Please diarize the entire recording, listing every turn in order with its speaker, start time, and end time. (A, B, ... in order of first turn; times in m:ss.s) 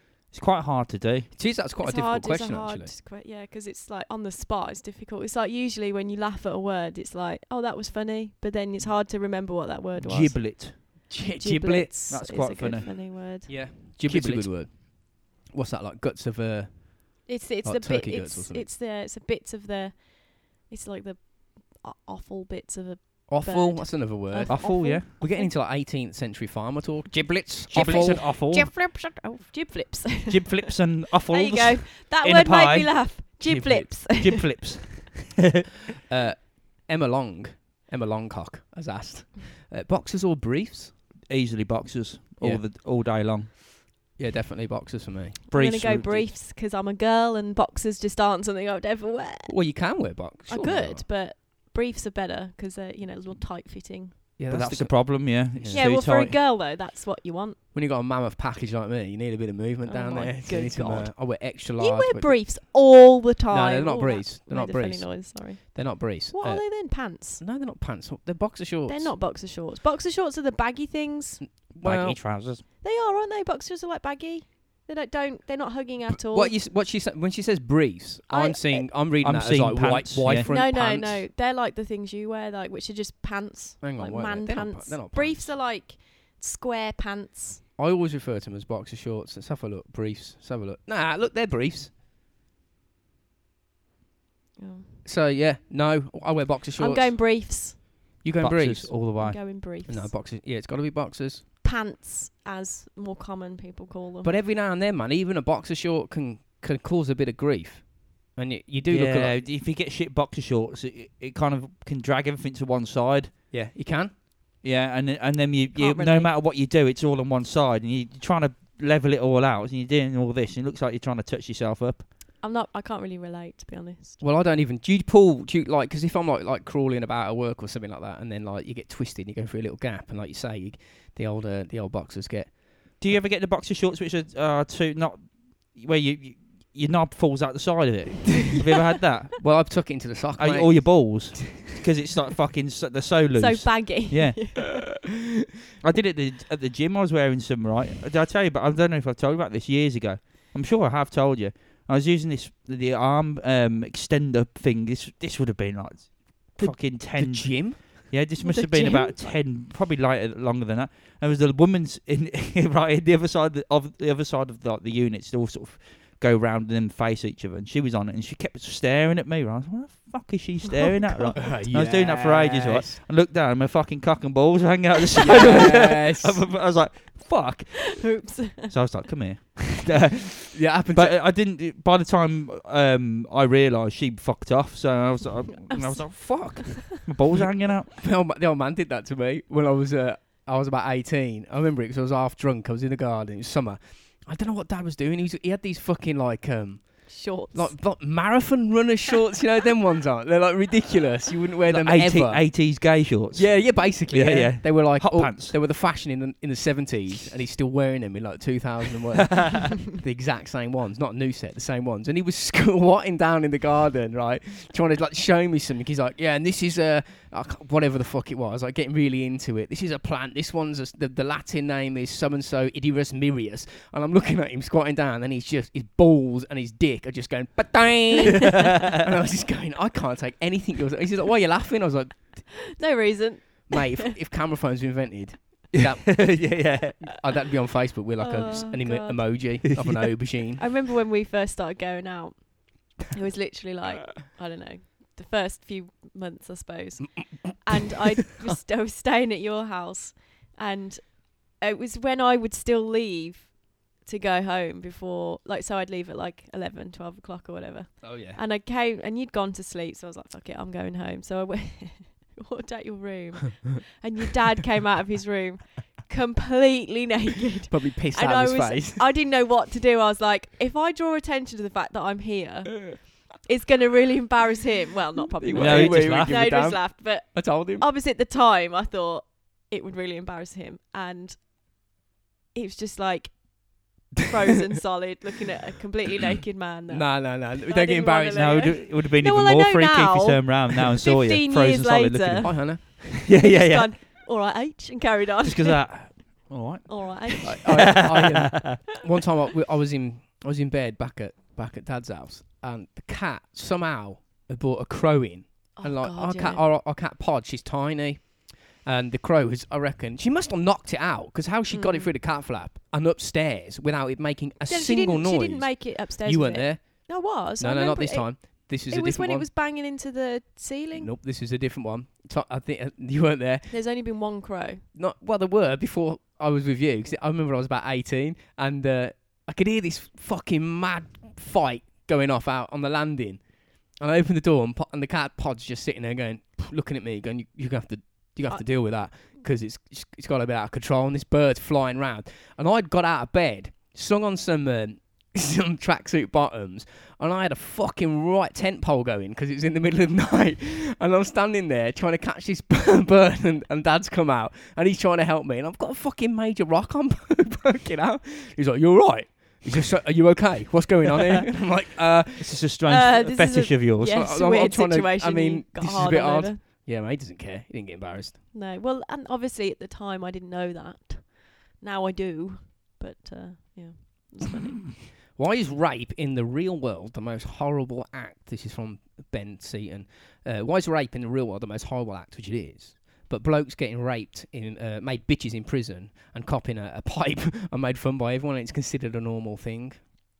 0:00.3-0:01.3 A
0:01.3-0:02.9 B
0:01.8-0:13.7 C
0:10.0-0:10.8 A
0:11.1-0:11.9 B
0:12.1-0:13.1 A
0:13.5-0:18.7 B
0:14.0-0:14.5 A
0:17.2-0:25.5 C
0:23.3-0:28.4 B
0:24.5-0:25.1 A
0:27.2-0:28.8 A
0:27.7-0:34.6 C
0:30.2-0:35.5 A
0:33.4-0:33.9 B
0:36.1-0:41.0 B
0:41.2-0:43.8 A
0:42.4-0:42.6 B
0:44.2-0:46.2 B
0:45.5-0:49.8 C
0:45.5-0:46.2 A
0:49.5-0:51.0 B
0:50.5-0:54.2 C
0:54.4-0:55.9 B
0:54.5-0:56.4 A
0:55.7-0:57.6 C
0:57.7-1:02.6 B
0:59.8-1:07.4 C
1:03.5-1:09.2 B
1:08.9-1:11.4 C
1:11.4-1:12.2 B
1:11.8-1:12.6 A
1:12.8-1:16.5 C
1:16.2-1:21.2 B
1:18.3-1:18.9 C
1:19.2-1:20.5 A
1:20.4-1:27.6 C
1:23.8-1:25.6 B
1:27.8-1:31.9 B
1:34.6-1:34.9 C
1:35.0-1:37.6 B
1:36.8-1:37.8 C
1:38.2-1:39.1 B
1:38.4-1:39.5 A
1:39.2-1:40.1 C
1:39.6-1:41.4 B
1:41.6-1:44.3 C
1:44.2-1:49.4 B
1:48.9-1:53.4 A
1:53.5-1:54.1 B
1:54.6-2:02.1 A
1:55.7-1:56.3 C
2:02.4-2:04.2 C
2:04.2-2:12.6 B
2:13.0-2:19.5 A
2:19.4-2:21.7 B
2:20.4-2:24.7 A
2:23.3-2:24.8 C
2:25.8-3:07.9 A
2:36.5-2:37.9 B
2:38.4-2:39.3 C
2:51.4-2:53.0 B
2:55.2-2:56.5 B
2:57.9-2:59.0 C
3:00.5-3:01.2 B
3:05.7-3:06.9 C
3:08.0-3:52.6 B
3:17.1-3:17.8 C
3:21.7-3:25.6 A
3:29.3-3:29.7 A
3:52.6-3:54.1 C
3:53.7-4:00.7 B
3:56.0-3:57.1 A
3:58.2-3:59.6 C
3:59.8-4:00.1 A
4:00.6-4:41.4 C
4:18.0-4:18.4 B
4:27.7-4:29.1 B
4:35.4-4:37.8 B
4:35.6-4:36.4 A
4:42.5-4:56.2 C
4:46.9-4:48.6 B
4:48.3-4:53.9 A
4:52.4-4:53.4 B
4:55.4-4:58.8 A
4:56.8-4:58.1 C
4:57.4-5:19.5 B
5:05.8-5:06.6 C
5:11.7-5:12.1 C
5:14.6-5:21.1 C
5:20.9-5:23.8 B
5:23.7-5:24.8 C
5:24.9-6:02.6 B
5:38.5-5:38.8 C
6:02.4-6:04.2 A
6:02.8-6:06.6 C
6:04.0-6:08.4 B
6:08.5-6:14.8 C
6:15.1-6:30.0 B